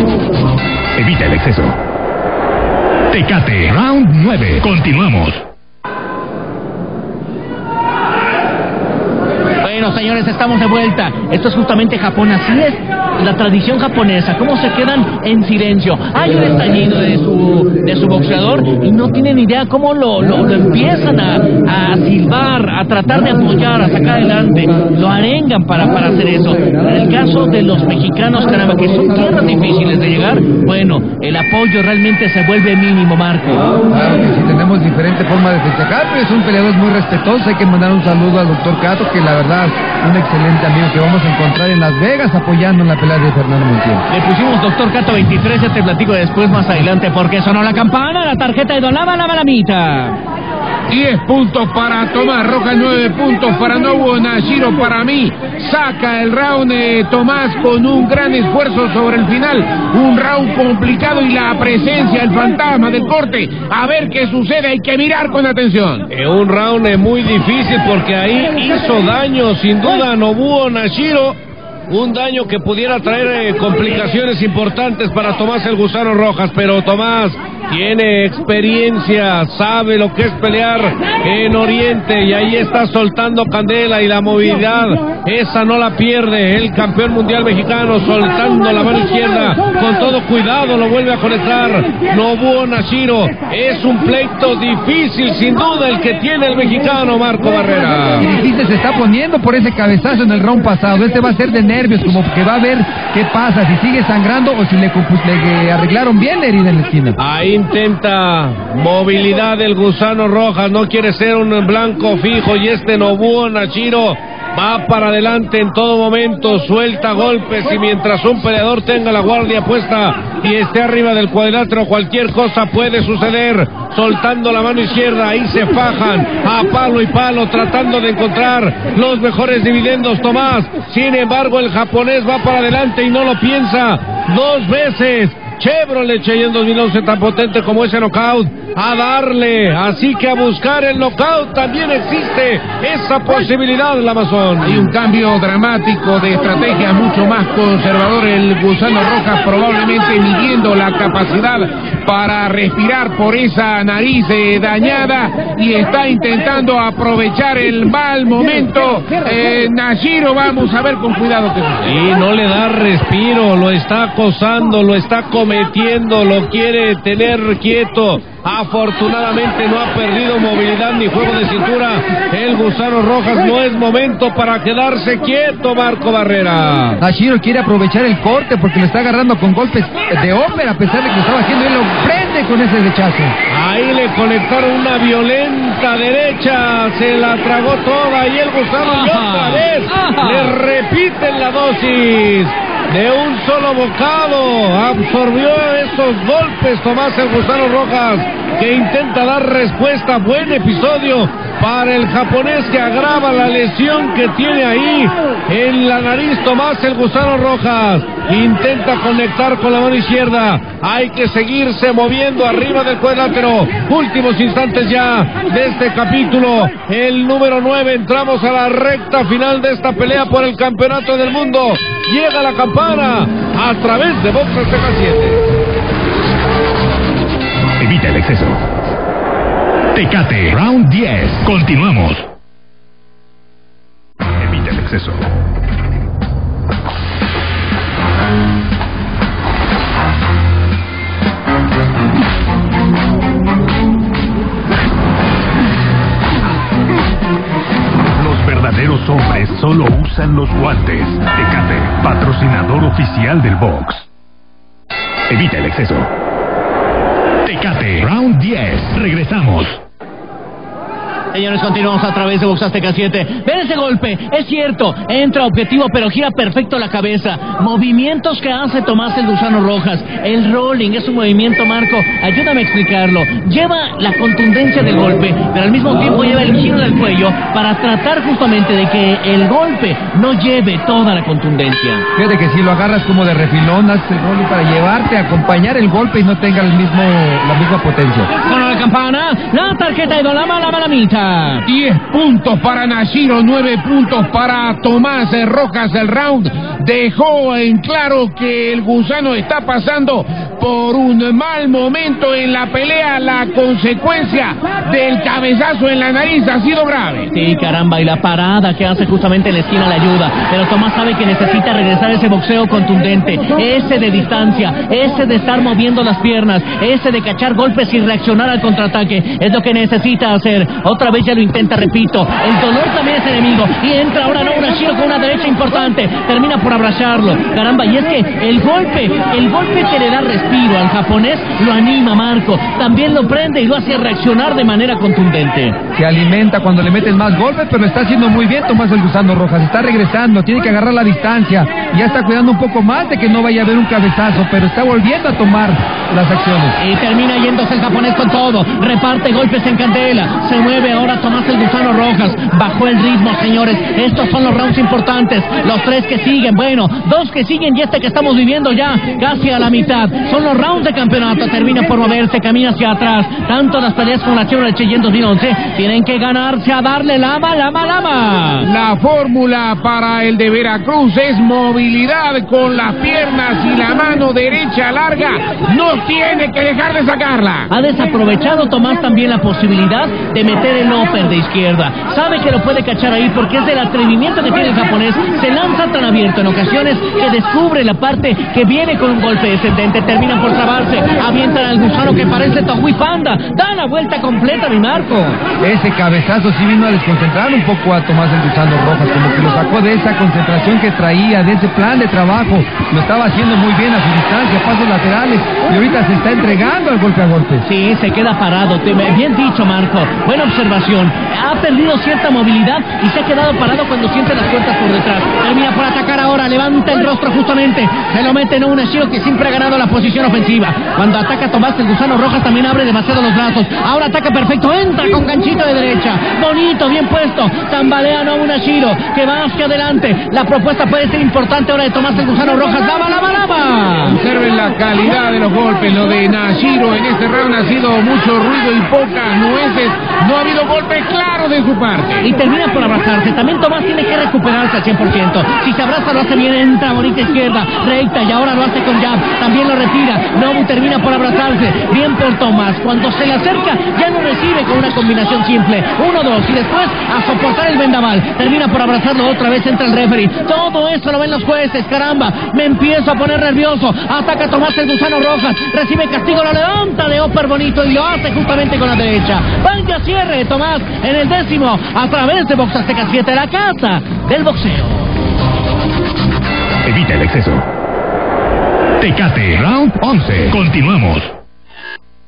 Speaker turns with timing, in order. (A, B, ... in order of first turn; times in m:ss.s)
0:01.0-0:01.8 A
0:03.1-0:05.4 A
0:09.6-0:33.8 B
0:33.9-0:44.0 C
0:44.1-0:50.2 B
0:50.9-1:06.0 D
1:06.1-1:11.4 E
1:11.9-1:38.3 E
1:38.2-1:47.2 C
1:47.2-2:24.8 E
2:24.6-2:42.0 D
2:41.8-2:57.0 E
2:57.0-3:03.3 C
3:03.5-3:45.4 E
3:08.8-3:10.5 B
3:47.8-3:48.6 A
3:49.9-3:52.3 A
3:54.4-3:55.2 A
4:08.2-4:14.0 A
4:15.3-4:16.1 A
4:17.4-4:19.8 A
4:21.3-4:42.0 B
4:42.2-4:48.3 C
4:48.3-4:51.6 B
4:51.7-5:07.3 D
5:07.3-5:35.8 B
5:35.9-5:46.8 C
5:46.8-6:08.7 B
6:08.6-6:17.7 D
6:17.7-6:35.4 B
6:35.6-6:47.6 C
6:47.6-7:14.2 B
7:14.0-7:22.2 D
7:22.2-7:55.1 B
7:56.8-7:57.7 A
7:59.0-8:01.3 A